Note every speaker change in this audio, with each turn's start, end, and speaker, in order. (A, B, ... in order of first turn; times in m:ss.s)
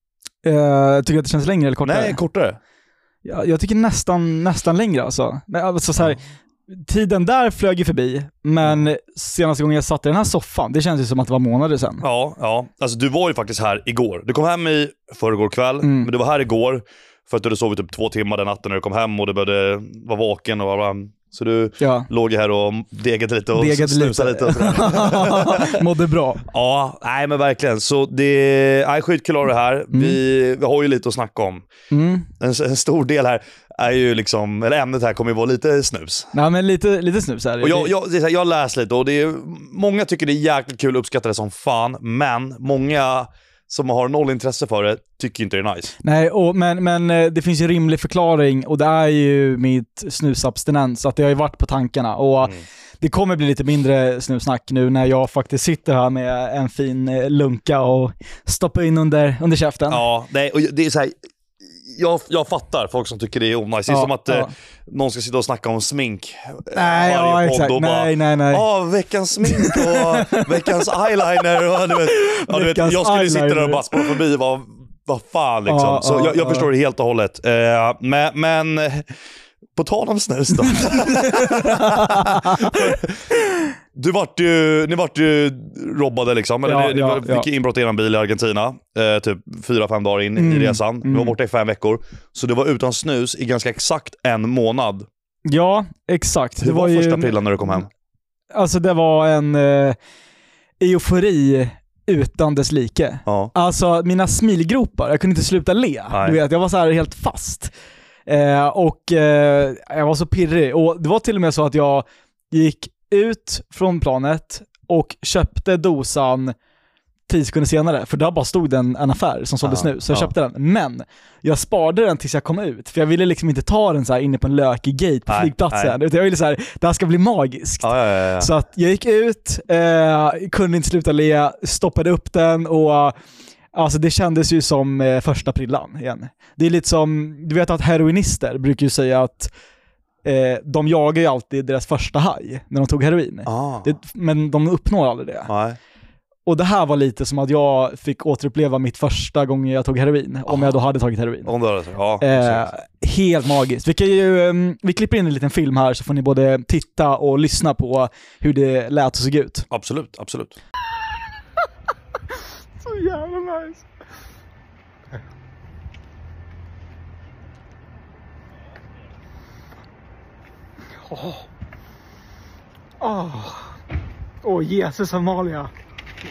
0:00.4-0:02.2 A
0:01.8-0:02.6 B
0:03.2-0:12.0 A
0:12.0-0:25.8 B
0:15.8-0:16.1 A
0:21.8-0:22.1 A
0:23.5-0:26.4 A
0:26.5-0:31.6 B
0:29.9-0:30.2 A
0:31.9-0:32.3 A
0:32.4-0:36.3 B
0:36.3-0:37.9 A
0:37.6-0:45.9 B
0:46.0-1:00.0 A
0:59.9-1:01.1 B
1:01.8-1:19.1 B
1:03.9-1:04.5 A
1:06.7-1:08.7 A
1:09.4-1:10.8 A
1:11.9-1:14.2 A
1:15.7-1:16.7 A
1:19.8-1:23.3 B
1:20.7-1:23.0 A
1:23.9-1:35.1 B
1:26.6-1:27.5 A
1:30.4-1:31.3 A
1:35.4-1:37.8 A
1:36.6-1:37.9 B
1:38.5-1:40.0 A
1:40.8-1:47.7 A
1:43.3-1:43.5 B
1:46.1-1:46.4 B
1:48.3-1:56.6 A
1:57.3-2:13.1 A
1:59.6-2:00.3 B
2:05.3-2:06.0 B
2:07.8-2:08.5 B
2:13.7-2:19.5 A
2:20.2-2:25.5 A
2:23.4-2:23.9 B
2:25.5-2:25.8 B
2:26.4-2:31.5 A
2:30.5-2:30.8 B
2:31.4-2:32.7 B
2:32.2-2:39.7 A
2:39.7-2:40.6 B
2:42.8-2:43.8 A
2:51.0-2:51.4 A
2:53.0-2:53.8 A
2:54.4-2:55.7 A